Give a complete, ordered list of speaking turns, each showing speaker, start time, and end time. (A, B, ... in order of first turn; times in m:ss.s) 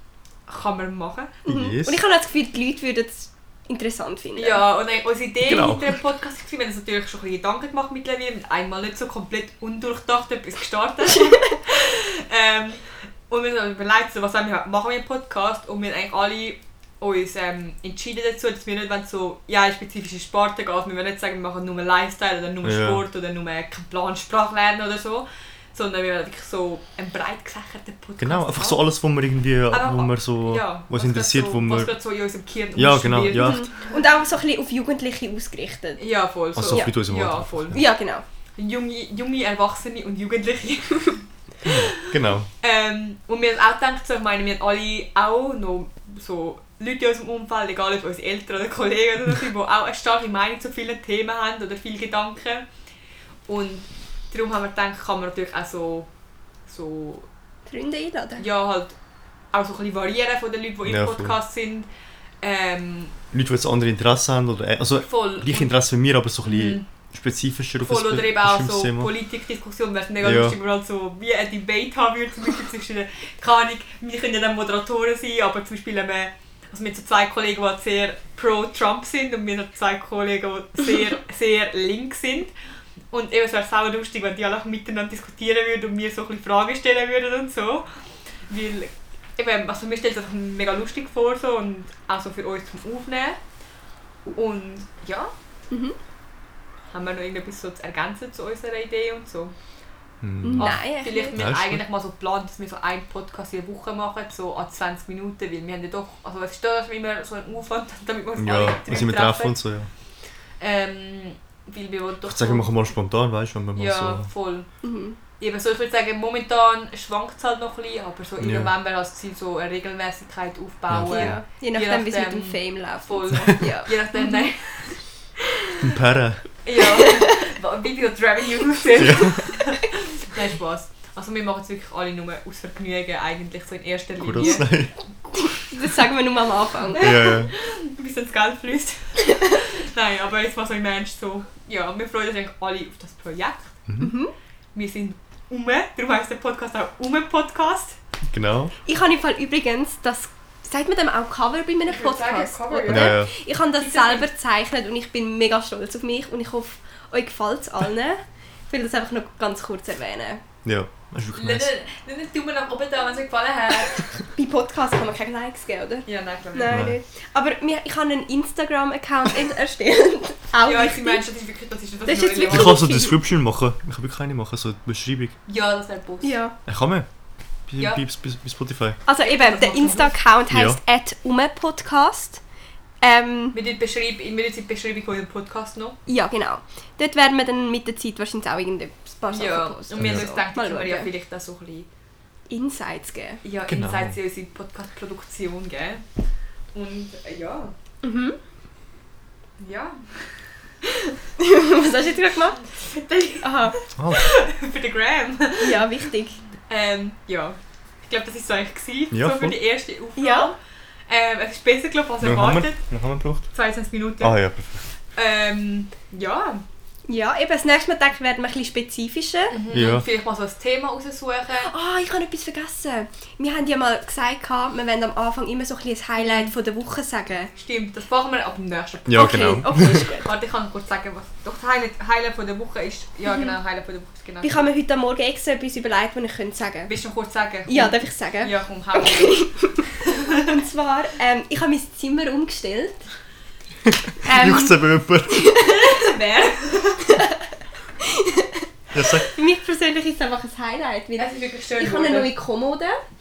0:00.5-0:01.3 A
0:01.4-0:02.0 B
0:01.5-0:04.6 C
0:04.4-0:28.8 A
0:05.4-0:05.9 B
0:22.6-0:23.0 B
0:28.2-0:31.9 B
0:29.7-0:33.7 A
0:32.8-0:33.7 B
0:33.3-0:36.0 C
0:36.0-0:37.8 A
0:36.6-0:37.8 B
0:36.7-0:37.0 C
0:37.7-0:38.2 C
0:38.6-0:42.0 A
0:41.6-0:42.5 B
0:42.6-0:52.6 A
0:53.5-0:56.1 A
0:56.7-0:57.3 A
0:57.7-0:58.4 C
0:58.4-0:59.0 A
0:59.5-1:01.9 A
1:00.8-1:01.4 B
1:02.4-1:03.1 A
1:03.3-1:09.1 B
1:05.0-1:05.7 A
1:06.5-1:06.8 A
1:07.8-1:22.5 A
1:10.2-1:10.6 B
1:23.1-1:27.9 A
1:28.5-1:33.4 A
1:34.3-1:35.3 A
1:35.7-1:36.0 C
1:36.9-1:39.5 A
1:40.2-1:41.8 B
1:40.4-1:41.4 C
1:40.5-1:49.6 A
1:48.4-1:49.9 B
1:50.6-1:52.7 A
1:52.3-1:54.3 B
1:53.7-1:54.7 A
1:54.8-1:55.2 C
1:55.4-2:05.0 A
1:58.4-1:58.7 B
2:00.9-2:01.4 B
2:01.0-2:04.5 C
2:05.8-2:06.5 B
2:06.6-2:14.6 A
2:06.9-2:07.4 C
2:08.9-2:09.5 B
2:14.2-2:14.9 B
2:15.4-2:17.3 C
2:17.0-2:23.8 A
2:17.0-2:17.5 B
2:23.9-2:24.1 B
2:24.0-2:24.3 C
2:24.7-2:28.0 A
2:28.3-2:28.7 B
2:28.8-2:40.4 C
2:31.9-2:33.2 A
2:32.9-2:33.3 B
2:33.8-2:34.3 A
2:40.6-2:41.7 B
2:41.3-2:44.0 A
2:44.4-2:51.2 C
2:46.0-2:46.9 A
2:46.6-2:47.0 B
2:50.6-2:53.0 A
2:52.1-2:53.2 C
2:52.5-2:55.3 B
2:55.5-2:56.4 A
2:56.2-2:56.6 C
2:56.6-2:57.1 B
2:57.7-2:59.0 B
2:59.1-3:02.4 C
2:59.2-3:00.2 A
3:00.5-3:00.8 B
3:03.0-3:03.6 C
3:03.5-3:06.0 A
3:06.1-3:11.1 C
3:09.3-3:11.9 A
3:10.0-3:10.3 B
3:12.5-3:13.4 C
3:13.4-3:16.0 A
3:13.7-3:14.2 B
3:16.7-3:17.7 A
3:18.0-3:18.4 C
3:19.6-3:20.0 A
3:20.8-3:21.1 A
3:21.4-3:22.6 C
3:22.7-3:25.8 A
3:23.4-3:23.8 C
3:24.0-3:24.3 B
3:25.6-3:26.4 C
3:26.7-3:32.8 A
3:29.1-3:29.5 B
3:30.2-3:30.5 C
3:32.2-3:33.4 B
3:33.5-3:34.4 A
3:34.2-3:34.8 B
3:35.1-3:36.6 A
3:37.1-3:39.6 C
3:39.5-3:41.7 A
3:39.7-3:40.0 B
3:41.6-3:47.5 C
3:46.2-3:46.5 A
3:47.6-3:54.6 A
3:49.1-3:50.0 B
3:49.1-3:50.3 C
3:54.4-3:56.9 C
3:56.9-4:00.5 A
3:57.7-3:59.8 C
4:00.3-4:03.0 C
4:04.2-4:05.6 B
4:04.2-4:06.1 C
4:05.6-4:07.1 A
4:08.0-4:08.6 C
4:08.9-4:09.3 B
4:09.2-4:13.0 C
4:11.2-4:12.3 A